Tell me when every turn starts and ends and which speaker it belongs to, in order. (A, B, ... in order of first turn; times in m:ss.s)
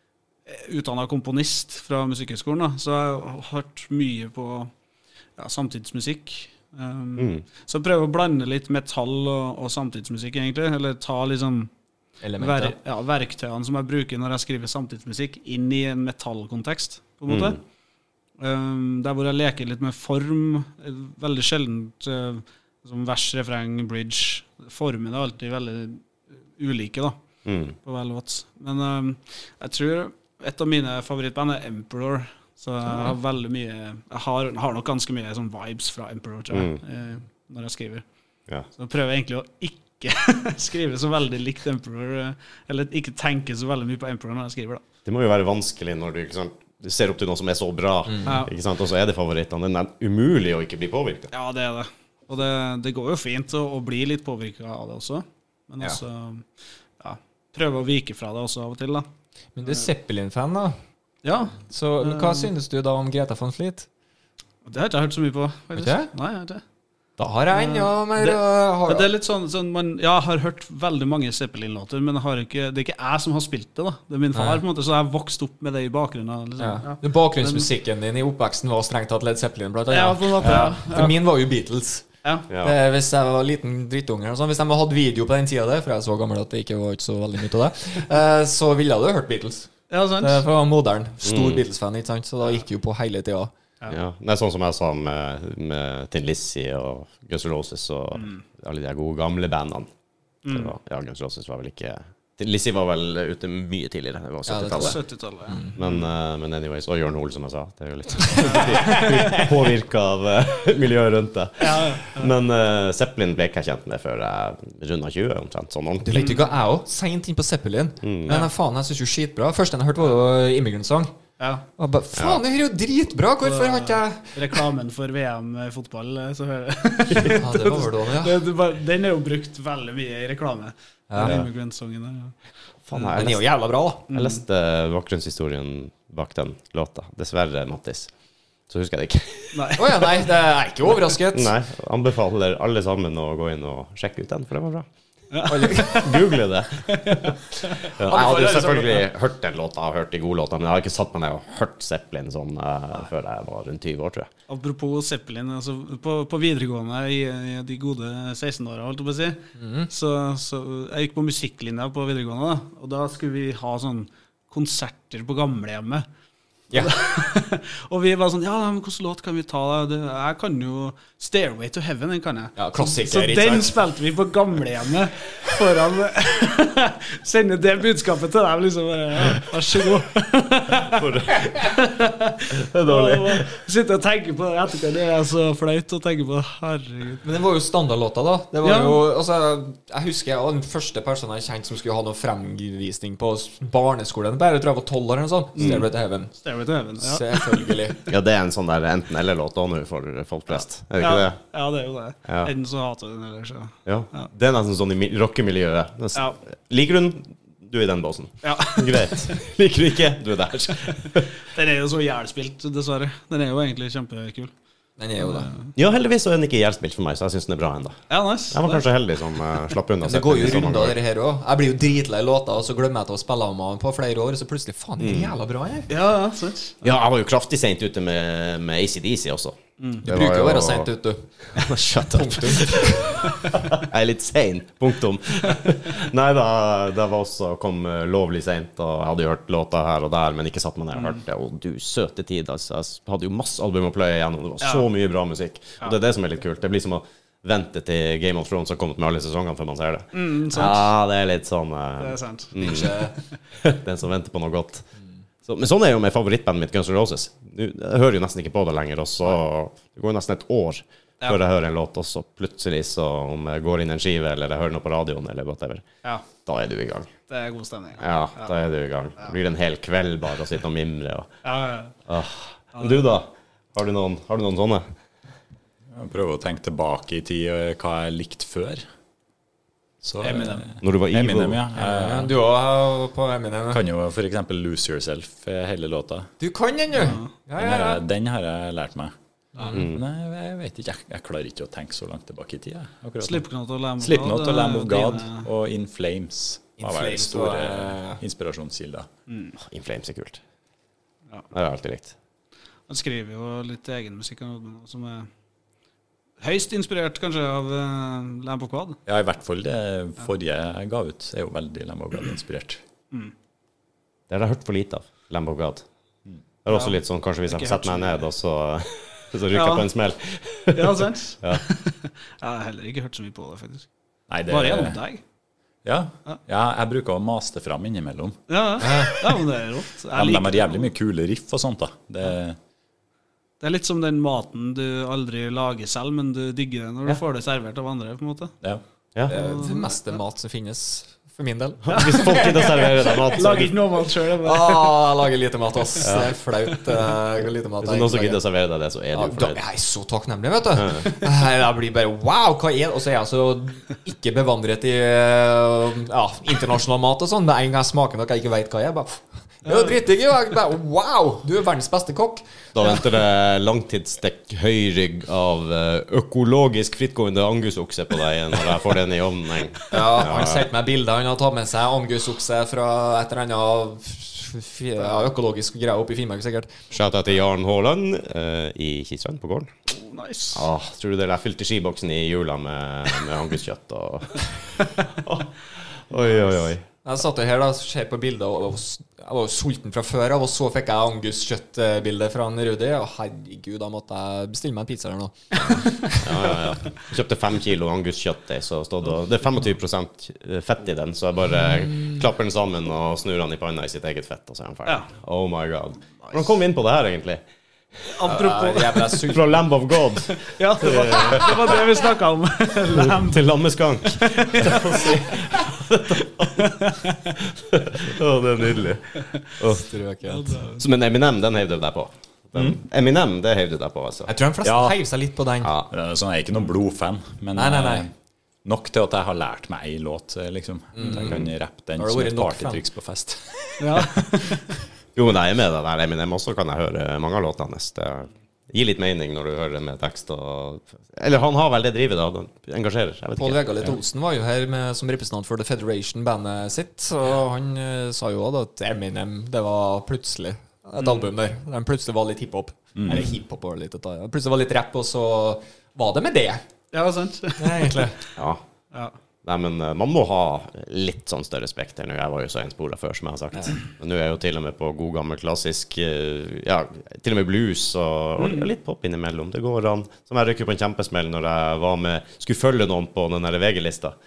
0:00.5-0:04.7 A
0:05.4-0:11.7 A
0:07.2-0:07.4 B
0:12.2-0:12.8 C
0:12.4-0:17.6 A
0:17.3-0:17.6 B
0:18.4-0:27.2 A
0:27.4-0:27.8 B
0:27.8-0:38.0 A
0:36.5-0:36.8 B
0:38.8-0:44.8 A
0:45.0-0:51.3 B
0:48.1-0:48.4 C
0:48.2-0:48.5 A
0:51.3-0:59.1 A
0:59.6-1:00.8 C
1:01.2-1:02.5 A
1:01.7-1:03.9 C
1:04.6-1:06.6 A
1:05.8-1:06.1 C
1:07.2-1:09.1 C
1:07.5-1:17.7 A
1:14.3-1:14.6 C
1:16.6-1:22.1 C
1:19.9-1:21.2 A
1:20.4-1:20.7 D
1:22.5-1:22.8 B
1:22.6-1:33.5 C
1:29.9-1:30.4 A
1:31.2-1:31.6 B
1:33.9-1:39.9 B
1:38.2-1:38.4 A
1:40.4-1:40.7 A
1:40.5-1:45.0 B
1:44.5-1:45.8 C
1:44.7-1:46.0 A
1:45.8-1:56.3 B
1:48.4-1:49.4 C
1:48.4-1:49.4 A
1:51.6-1:52.3 A
1:56.0-2:01.1 C
1:56.2-1:56.5 A
1:58.0-1:58.4 B
2:01.4-2:01.6 A
2:01.8-2:04.4 C
2:02.2-2:02.4 B
2:03.4-2:12.4 A
2:07.3-2:08.4 C
2:11.1-2:11.4 C
2:12.9-2:13.5 B
2:13.2-2:14.1 C
2:14.1-2:14.4 A
2:14.1-2:18.1 B
2:18.7-2:19.8 B
2:19.5-2:20.0 A
2:19.8-2:21.5 C
2:21.3-2:24.8 B
2:25.3-2:26.2 A
2:25.5-2:26.1 C
2:25.9-2:34.3 B
2:26.9-2:29.0 A
2:34.5-2:46.1 A
2:39.6-2:39.9 C
2:46.7-3:07.2 A
2:52.6-2:53.8 C
3:00.9-3:01.6 B
3:02.5-3:03.4 B
3:07.2-3:16.3 C
3:08.6-3:09.0 A
3:15.6-3:15.8 B
3:16.3-3:17.6 A
3:17.0-3:18.0 C
3:18.1-3:21.4 B
3:20.5-3:24.3 A
3:22.3-3:22.5 B
3:23.9-3:31.3 B
3:28.4-3:29.3 A
3:31.4-3:34.5 A
3:35.0-3:35.5 C
3:35.2-3:35.8 A
3:35.8-3:41.0 B
3:38.1-3:38.9 A
3:40.0-3:45.9 C
3:45.0-3:45.4 B
3:45.9-3:46.9 A
3:46.8-3:50.9 B
3:49.8-3:50.0 A
3:50.0-3:51.3 C
3:51.5-4:14.9 B
3:52.1-3:53.3 C
4:01.0-4:01.2 A
4:04.6-4:04.9 A
4:10.1-4:10.9 A
4:12.0-4:12.5 A
4:12.6-4:13.1 C
4:15.4-4:25.8 B
4:26.4-4:27.1 B
4:27.3-4:28.5 A
4:28.0-4:31.3 B
4:31.4-4:31.9 A
4:32.1-4:34.8 B
4:32.8-4:33.1 A
4:35.9-4:38.8 D
4:40.0-4:42.4 D
4:40.2-4:40.7 A
4:40.8-4:41.6 B
4:41.8-4:43.8 C
4:43.7-4:46.3 D
4:46.4-4:48.0 C
4:47.0-4:47.3 A
4:47.0-4:49.1 D
4:49.6-4:49.9 A
4:49.7-4:53.4 D
4:49.7-4:50.0 B
4:53.2-4:55.5 A
4:54.0-4:59.1 D
4:56.8-4:58.2 C
4:59.3-4:59.6 A
4:59.6-5:00.4 B
5:01.5-5:02.1 B
5:02.9-5:05.3 A
5:06.4-5:09.0 A
5:09.1-5:12.8 D
5:14.3-5:15.8 B
5:16.6-5:21.6 B
5:16.7-5:18.2 A
5:19.5-5:19.9 A
5:20.7-5:23.9 A
5:24.3-5:25.0 D
5:24.5-5:25.2 A
5:25.8-5:28.4 D
5:28.5-5:30.9 A
5:28.8-5:29.4 C
5:30.2-5:32.6 D
5:33.6-5:38.6 A
5:39.3-5:40.0 A
5:39.3-5:42.8 C
5:41.8-5:43.8 B
5:41.9-5:45.0 A
5:44.4-5:48.4 C
5:46.0-5:46.3 B
5:47.8-5:49.6 B
5:49.1-6:03.0 C
5:50.8-5:51.1 B
5:59.6-6:00.0 A
6:02.8-6:10.7 B
6:09.9-6:16.8 C
6:16.9-6:19.7 B
6:19.9-6:20.7 A
6:20.5-6:26.8 B
6:27.0-6:36.4 C
6:36.2-6:47.4 B
6:46.2-6:46.5 A
6:48.1-6:49.3 A
6:48.2-6:49.7 C
6:49.3-6:51.9 B
6:50.4-6:53.5 A
6:52.9-6:56.8 B
6:54.1-6:55.2 A
6:54.6-6:55.6 C
6:56.6-6:57.4 A
6:57.5-6:59.9 B
6:59.2-6:59.5 A
6:59.7-7:00.6 C
7:00.3-7:00.8 A
7:00.8-7:04.3 B
7:04.3-7:05.7 C
7:04.6-7:05.0 D
7:05.6-7:05.9 B
7:05.9-7:08.1 D
7:07.5-7:08.1 C
7:08.6-7:13.8 D
7:11.0-7:12.8 C
7:13.8-7:14.6 A
7:15.2-7:23.7 B
7:23.4-7:36.6 C
7:31.0-7:31.2 A
7:33.0-7:33.3 D
7:36.9-7:38.3 A
7:37.6-7:38.2 C
7:38.4-7:38.6 B
7:39.4-7:54.2 B
7:48.4-7:48.7 A